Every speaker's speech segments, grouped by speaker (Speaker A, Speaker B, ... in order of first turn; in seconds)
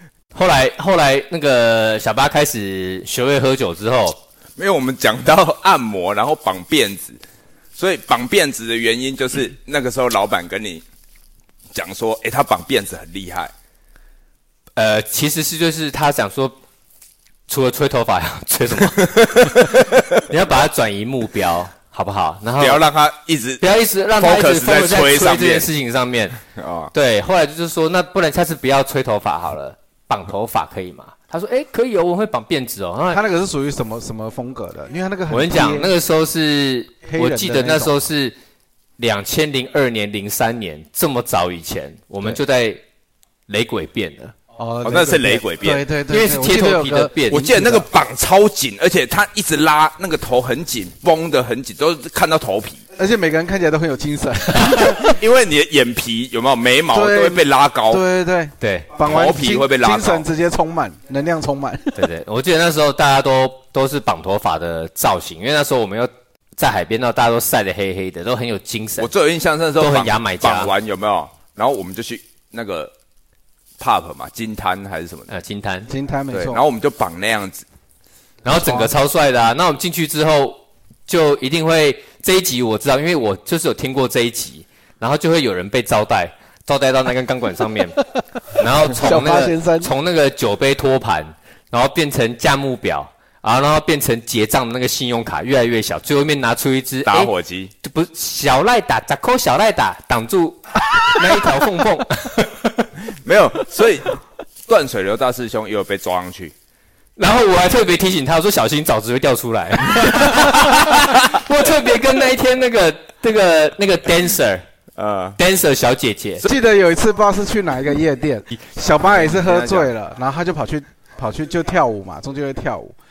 Speaker A: 0.3-4.2, 14.8-16.6, 17.5-22.8, 23.6-26.4, 26.9-33.2, 35.3-38.4, 39.0-42.8, 43.5-44.3, 46.1-47.6, 58.6-58.9, 62.0-69.1, 69.8-70.7, 75.3-75.9, 78.4-88.0, 88.5-102.9, 107.2-114.6, 115.4-116.4
Speaker B: 4.6-7.2, 7.8-10.8, 11.7-13.5, 19.0-20.2, 22.6-23.6, 24.2-25.7, 26.5-26.9, 44.8-45.8, 47.3-52.8, 54.6-58.0, 59.0-60.2, 69.0-72.9, 73.8-75.3, 76.3-77.6, 97.0-97.7, 103.1-104.2, 104.7-106.5, 110.9-111.2, 114.9-115.4, 119.1-119.9
Speaker C: 33.1-35.9, 37.1-38.0, 44.6-47.9, 53.0-55.2, 56.9-62.1, 75.9-76.6, 78.5-78.9, 88.9-89.9, 116.4-122.9